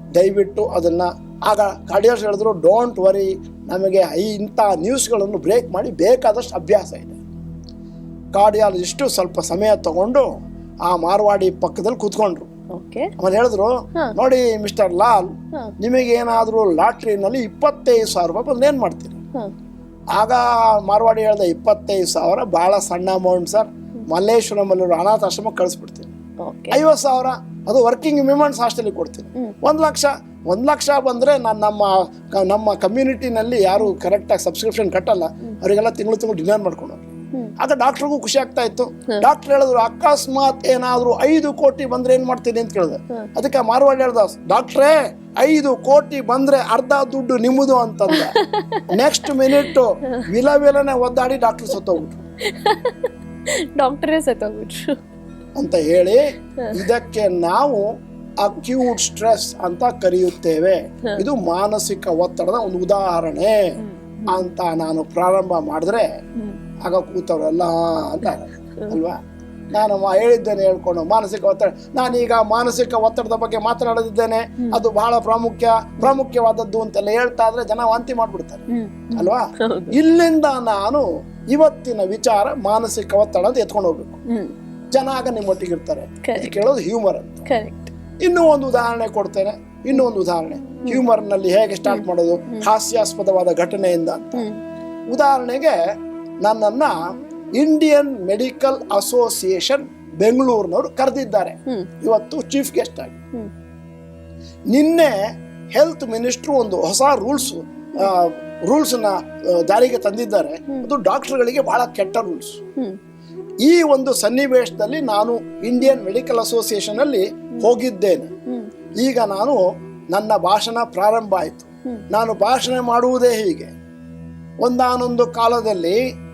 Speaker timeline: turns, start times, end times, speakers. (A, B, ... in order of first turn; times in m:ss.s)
0:00.2-0:07.2 A
0:08.3-0:10.3 A
0:10.9-0:12.5 A
0:12.7-0:13.1 B
0:13.2-0:15.3 A
0:15.8-0:19.2 A
0:20.2-0:26.1 A
0:26.4-0:26.8 B
0:26.7-0:48.3 A
0:48.1-0:50.2 B
0:48.9-0:52.2 A
0:52.4-0:54.9 B
0:55.6-0:56.2 A
0:56.7-0:57.8 A
0:58.4-1:03.6 A
1:03.8-1:04.5 B
1:04.3-1:06.1 A
1:06.8-1:24.2 A
1:18.7-1:19.9 B
1:24.3-1:24.5 B
1:24.9-1:27.5 A
1:26.2-1:26.6 B
1:27.4-1:27.9 B
1:28.2-1:34.4 A
1:31.8-1:32.7 B
1:34.4-1:34.6 B
1:35.1-1:35.8 A
1:36.4-1:36.9 A
1:37.6-1:43.2 A
1:44.7-1:45.2 A
1:45.8-1:52.6 A
1:53.6-1:58.3 A
1:59.0-1:59.6 A
2:00.1-2:03.7 A
2:04.6-2:06.0 A